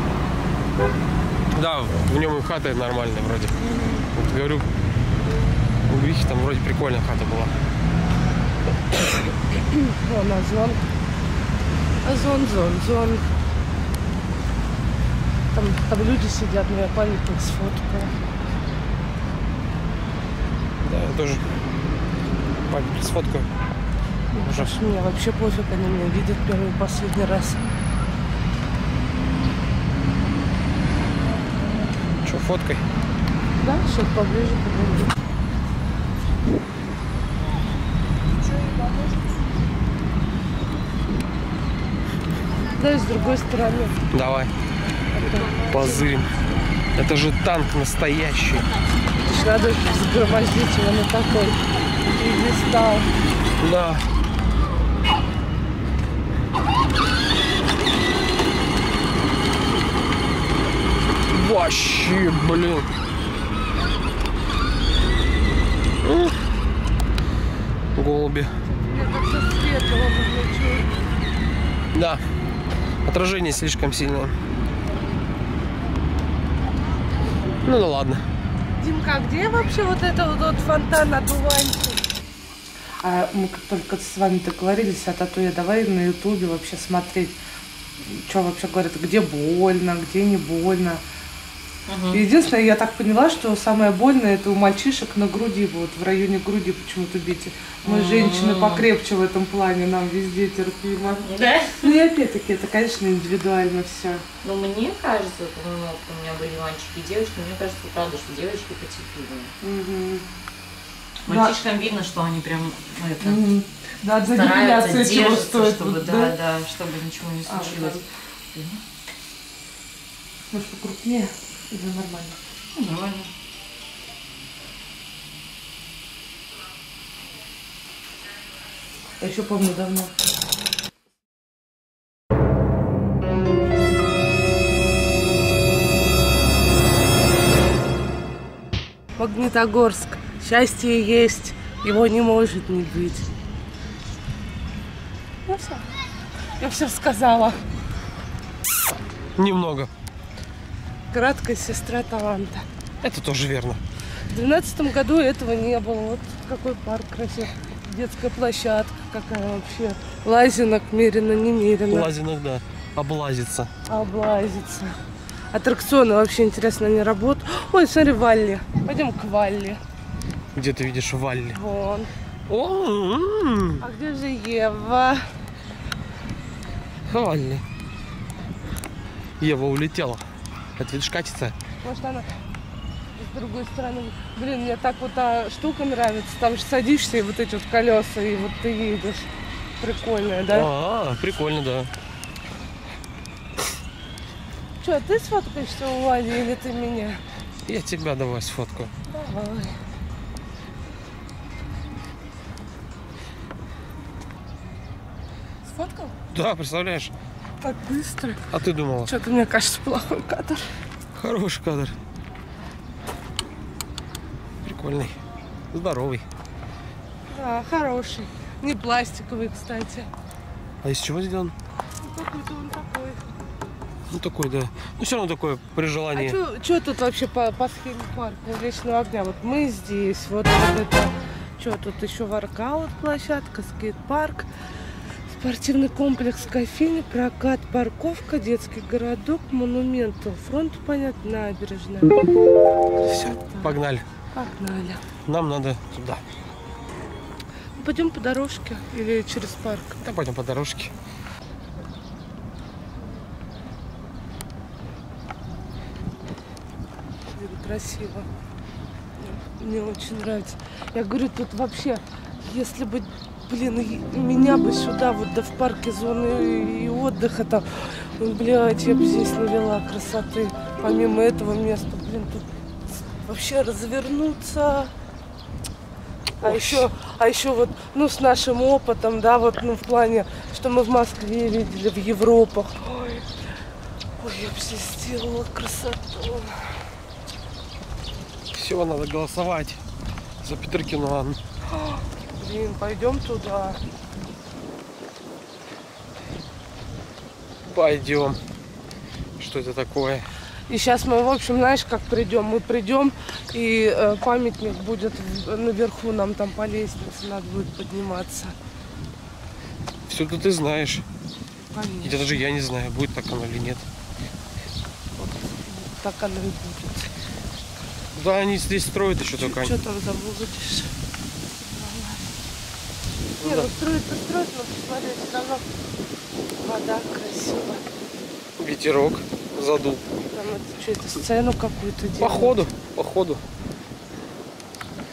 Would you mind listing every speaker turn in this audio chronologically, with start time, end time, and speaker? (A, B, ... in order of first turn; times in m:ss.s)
0:01.5-0:03.5 A
0:03.6-0:04.0 B
0:04.1-0:04.7 A
0:05.9-0:07.6 A
0:09.8-0:10.8 B
0:12.0-0:13.2 B
0:15.5-0:18.1 B
0:20.8-0:21.4 A
0:22.7-0:23.5 A
0:24.3-0:27.6 B
0:24.4-0:24.7 A
0:32.2-0:32.8 A
0:33.6-0:35.1 B
0:42.7-0:44.0 B
0:44.1-0:44.5 A
0:45.1-0:46.0 B
0:45.6-0:46.3 A
0:46.9-0:48.7 A
0:49.2-0:51.6 B
0:52.2-0:53.1 B
0:53.6-0:54.0 A
1:01.3-1:02.9 A
1:06.0-1:06.4 A
1:08.0-1:08.5 A
1:08.7-1:11.2 B
1:11.9-1:12.2 A
1:13.0-1:14.3 A
1:17.6-1:18.2 A
1:18.8-1:22.0 B
1:23.0-1:27.4 B
1:28.0-1:31.0 B
1:31.9-1:32.2 C
1:32.1-1:41.2 B
1:37.8-1:38.9 C
1:41.2-1:41.9 C
1:41.8-1:44.2 B
1:44.4-1:49.5 C
1:49.6-1:50.2 B
1:51.2-1:53.4 C
1:51.3-1:51.6 B
1:53.2-1:56.3 B
1:54.2-1:58.8 C
1:57.5-1:58.0 B
2:00.5-2:02.4 B
2:02.7-2:03.3 C
2:09.2-2:10.1 B
2:19.2-2:23.3 B
2:25.4-2:25.9 B
2:26.6-2:27.6 B
2:29.4-2:29.9 A
2:31.1-2:32.6 B
2:33.0-2:33.8 A
2:34.3-2:42.1 B
2:41.9-2:43.7 A
2:43.9-2:44.9 B
2:45.5-2:49.8 B
2:50.5-2:51.6 A
2:51.5-2:52.1 B
2:52.5-2:53.8 A
2:53.8-2:55.3 B
2:57.1-2:57.6 A
2:59.4-3:00.2 A
3:00.8-3:01.6 A
3:01.8-3:02.3 B
3:03.2-3:09.3 B
3:09.8-3:10.7 B
3:10.5-3:11.9 A
3:14.8-3:17.2 B
3:17.6-3:18.9 A
3:19.1-3:19.8 B
3:25.7-3:26.1 B
3:26.3-3:27.1 A
3:27.6-3:28.4 B
3:28.5-3:29.1 A
3:29.0-3:30.6 B
3:31.1-3:31.9 A
3:34.6-3:35.2 A
3:35.7-3:36.2 A
3:37.3-3:40.1 B
3:40.8-3:41.5 A
3:42.0-3:43.3 B
3:44.1-3:46.4 A
3:46.1-3:54.5 B
3:55.3-4:02.2 B
4:03.0-4:03.7 B
4:03.6-4:04.0 A
4:04.3-4:05.0 B
4:05.2-4:06.2 A
4:07.8-4:10.0 B
4:10.0-4:10.9 A
4:17.3-4:18.3 B
4:19.2-4:32.5 B
4:33.1-4:34.9 B
4:36.4-4:36.9 A
4:36.4-4:43.3 B
4:44.2-4:46.5 B
4:48.5-4:49.8 A
4:50.4-4:51.4 A
4:51.7-4:53.8 B
4:57.7-4:58.4 A
4:59.4-5:00.3 A
5:00.7-5:08.5 B
5:10.1-5:11.0 A
5:11.7-5:12.4 B
5:12.0-5:13.9 A
5:15.2-5:17.1 B
5:18.1-5:19.7 A
5:19.4-5:20.9 B
5:21.7-5:22.3 B
5:23.4-5:23.7 A
5:23.4-5:25.6 B
5:26.6-5:27.8 B
5:28.6-5:30.0 A
5:30.3-5:32.6 B
5:32.2-5:33.4 A